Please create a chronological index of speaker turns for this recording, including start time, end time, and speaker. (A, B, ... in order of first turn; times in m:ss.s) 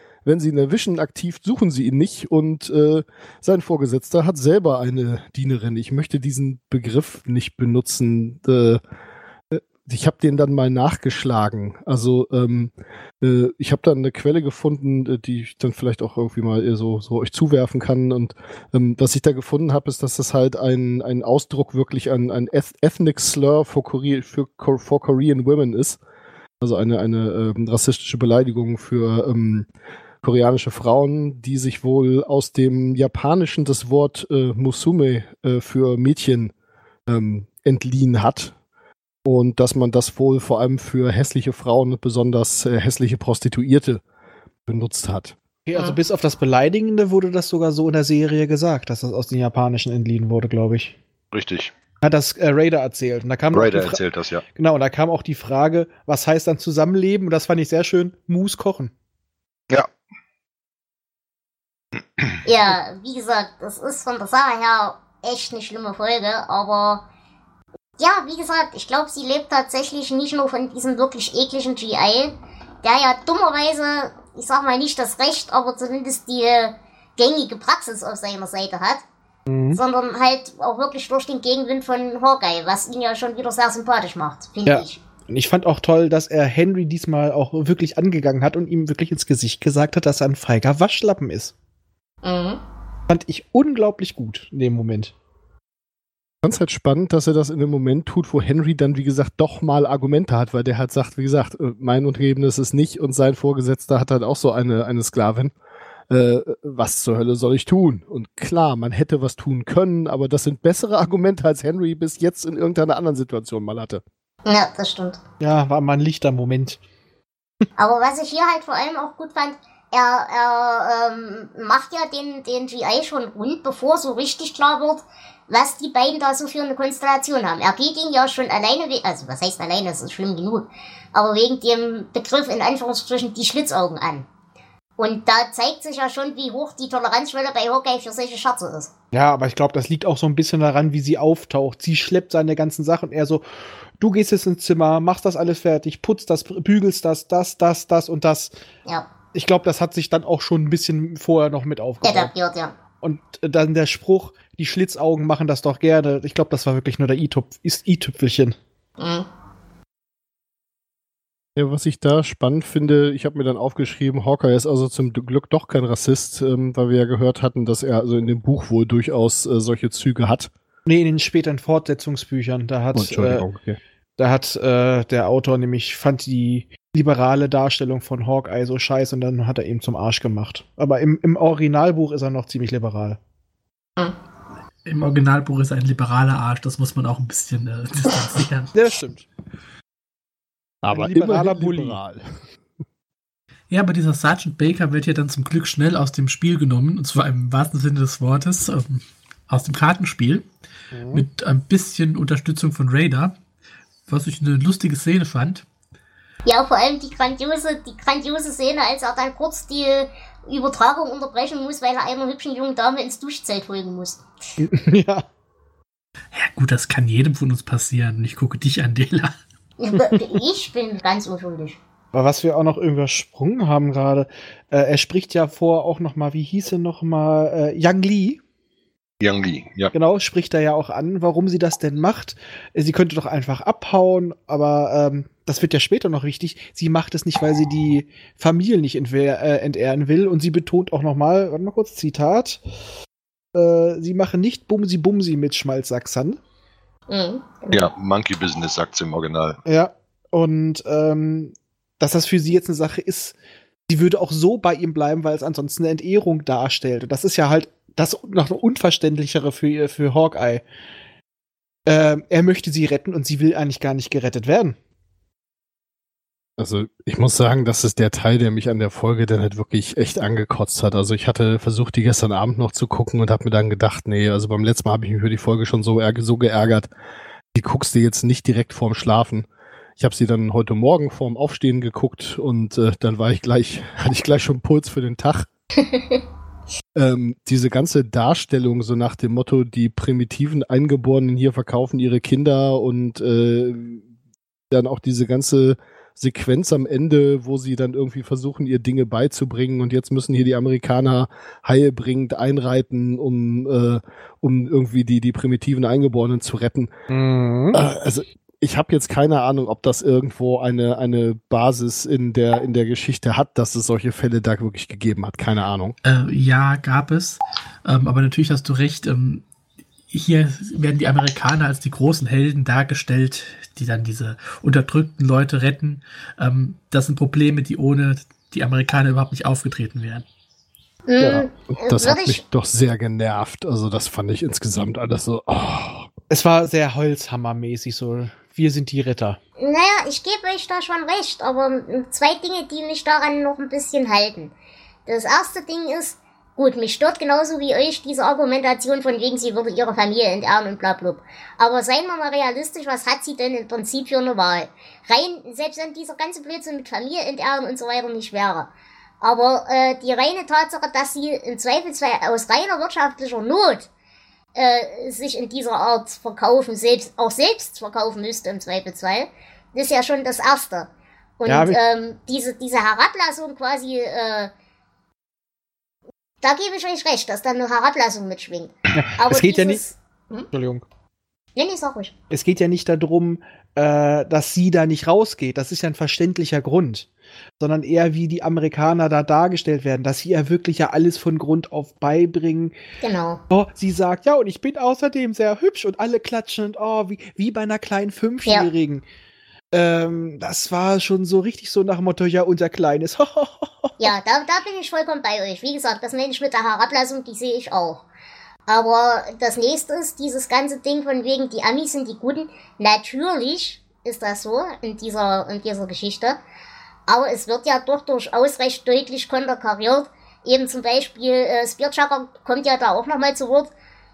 0:00.2-0:08.8 A
0:09.5-0:26.0 A
0:26.6-0:29.7 A
0:30.2-0:36.5 A
0:37.1-0:38.5 A
0:39.2-0:44.0 A
0:44.6-0:45.4 A
0:45.7-0:51.0 B
0:51.3-0:51.7 C
0:52.0-0:58.9 B
0:53.5-0:54.4 C
1:02.4-1:07.0 D
1:08.0-1:19.0 D
1:19.5-1:19.8 B
1:19.7-1:25.0 D
1:24.7-1:31.5 B
1:32.2-1:32.6 D
1:33.1-1:35.1 B
1:36.4-1:45.5 A
1:46.1-1:54.0 A
1:54.4-1:55.2 D
1:55.4-1:56.8 B
1:57.8-2:14.3 D
2:15.0-2:18.9 D
2:19.1-2:23.4 B
2:24.0-2:28.5 B
2:29.3-2:32.3 B
2:32.0-2:32.7 D
2:33.0-2:38.6 B
2:39.0-2:39.3 D
2:41.6-2:50.5 A
2:50.9-2:53.4 B
2:52.9-2:53.8 A
2:54.2-3:03.2 B
3:04.8-3:08.7 E
3:08.7-3:09.3 B
3:10.8-3:12.3 A
3:10.9-3:12.0 B
3:13.7-3:20.5 E
3:20.9-3:21.2 B
3:21.1-3:23.3 E
3:24.1-3:25.6 E
3:26.5-3:34.2 D
3:34.6-3:35.2 B
3:36.3-3:39.3 E
3:39.8-3:41.8 D
3:42.1-3:48.4 B
3:49.2-3:49.9 C
3:49.9-4:02.6 B
4:03.5-4:06.4 B
4:07.1-4:07.9 D
4:07.7-4:09.6 C
4:09.6-4:13.4 B
4:13.9-4:20.6 B
4:21.9-4:24.8 B
4:26.6-4:36.9 A
4:37.5-4:45.5 A
4:45.8-4:46.2 D
4:47.0-4:54.0 A
4:54.7-5:06.9 A
5:07.1-5:07.8 B
5:07.7-5:16.0 A
5:16.0-5:19.4 E
5:20.1-5:30.2 E
5:31.1-5:32.4 D
5:31.2-5:36.1 A
5:36.3-5:39.4 B
5:39.6-5:44.5 D
5:45.1-5:58.7 D
5:59.2-6:03.9 D
6:04.6-6:14.5 D
6:11.5-6:11.8 B
6:16.4-6:20.5 D
6:19.0-6:19.8 B
6:20.5-6:20.8 B
6:21.6-6:22.1 D
6:22.3-6:27.1 B
6:27.6-6:32.7 B
6:33.0-6:33.4 D
6:33.5-6:39.0 B
6:39.7-6:43.9 B
6:44.0-6:48.0 D
6:48.7-6:56.4 D
6:57.1-7:03.7 D